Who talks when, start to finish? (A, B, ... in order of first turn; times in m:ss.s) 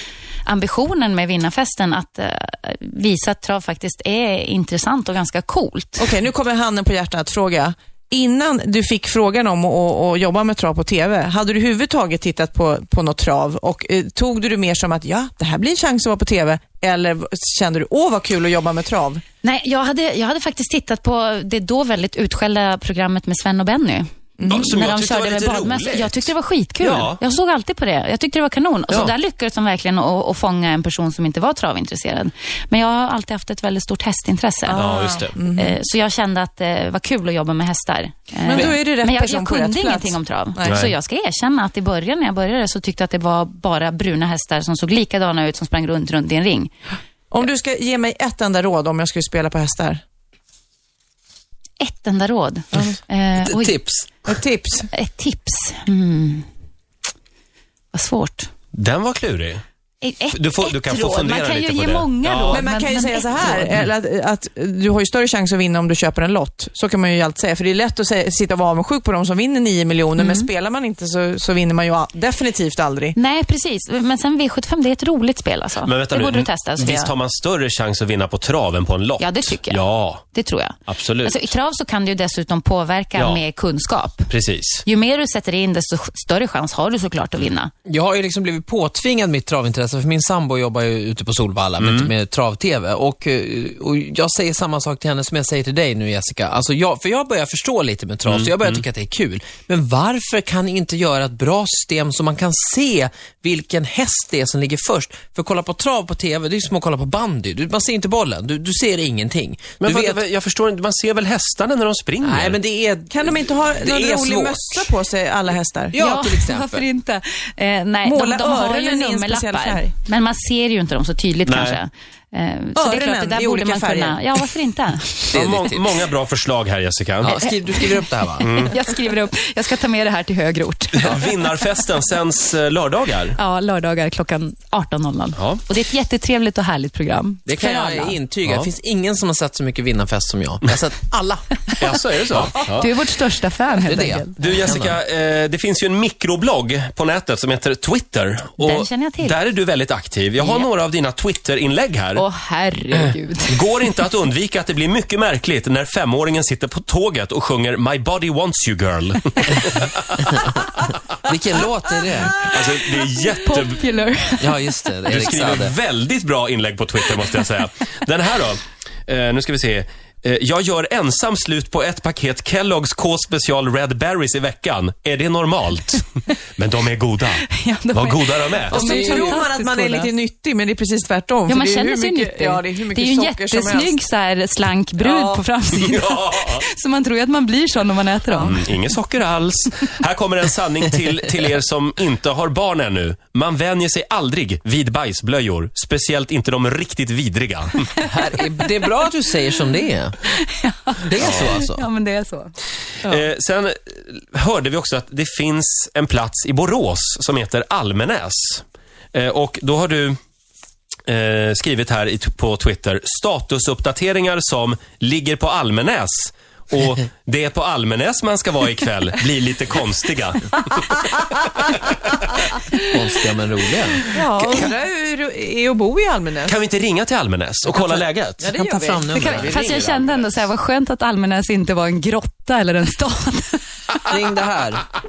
0:00.5-0:06.1 A
0:06.0-0:19.2 B
0:19.4-0:34.9 A
0:24.4-0:24.8 B
0:24.5-0:27.2 C
0:34.7-0:35.3 C
0:34.7-0:35.8 B
0:35.6-0:46.7 A
0:38.4-0:40.8 B
0:40.7-0:40.9 C
0:47.3-0:50.0 B
0:51.8-0:53.8 A
0:52.7-0:53.0 B
0:53.4-0:54.2 D
0:54.3-0:54.9 B
0:54.9-0:56.5 A
0:57.9-0:58.5 A
0:58.7-0:59.6 C
1:00.0-1:03.8 A
1:00.3-1:02.6 C
1:02.5-1:13.2 B
1:10.2-1:10.5 A
1:13.1-1:17.1 A
1:15.8-1:20.2 C
1:19.2-1:24.3 A
1:20.9-1:21.5 C
1:23.2-1:23.4 C
1:24.3-1:24.8 C
1:24.8-1:27.7 A
1:27.9-1:50.2 D
1:31.8-1:32.1 C
1:38.3-1:38.8 C
1:49.8-1:52.6 C
1:52.2-1:55.0 D
1:53.1-1:56.0 B
1:55.9-1:56.9 D
1:56.0-2:05.3 A
1:58.0-1:59.9 B
2:01.5-2:01.8 C
2:02.8-2:04.3 B
2:05.3-2:07.4 C
2:05.3-2:06.0 D
2:07.2-2:08.6 D
2:07.6-2:11.2 A
2:08.4-2:08.7 C
2:11.0-2:13.4 C
2:13.4-2:18.2 A
2:15.4-2:15.6 C
2:17.5-2:21.7 D
2:18.4-2:18.7 C
2:21.8-2:22.9 C
2:22.5-2:24.4 A
2:23.8-2:25.0 D
2:24.4-2:32.2 C
2:28.6-2:29.4 A
2:30.4-2:30.7 A
2:32.2-2:33.6 A
2:33.0-2:40.5 C
2:41.2-2:42.5 D
2:42.4-2:43.8 C
2:43.4-2:44.5 A
2:44.4-2:45.8 D
2:45.1-2:56.1 C
2:56.6-2:59.4 C
2:57.5-3:00.1 A
2:58.7-3:04.0 B
3:01.5-3:08.6 A
3:05.0-3:05.4 B
3:05.7-3:06.6 C
3:08.4-3:17.9 C
3:18.0-3:20.2 D
3:20.3-3:22.5 A
3:21.1-3:21.8 D
3:21.2-3:21.5 C
3:23.0-3:28.6 C
3:29.1-3:30.2 C
3:31.1-3:41.0 C
3:42.8-3:44.1 D
3:44.1-3:46.6 B
3:46.4-3:48.5 C
3:48.4-3:49.1 B
3:48.5-3:49.7 D
3:49.1-3:54.2 A
3:49.2-3:50.3 C
3:54.1-3:54.9 D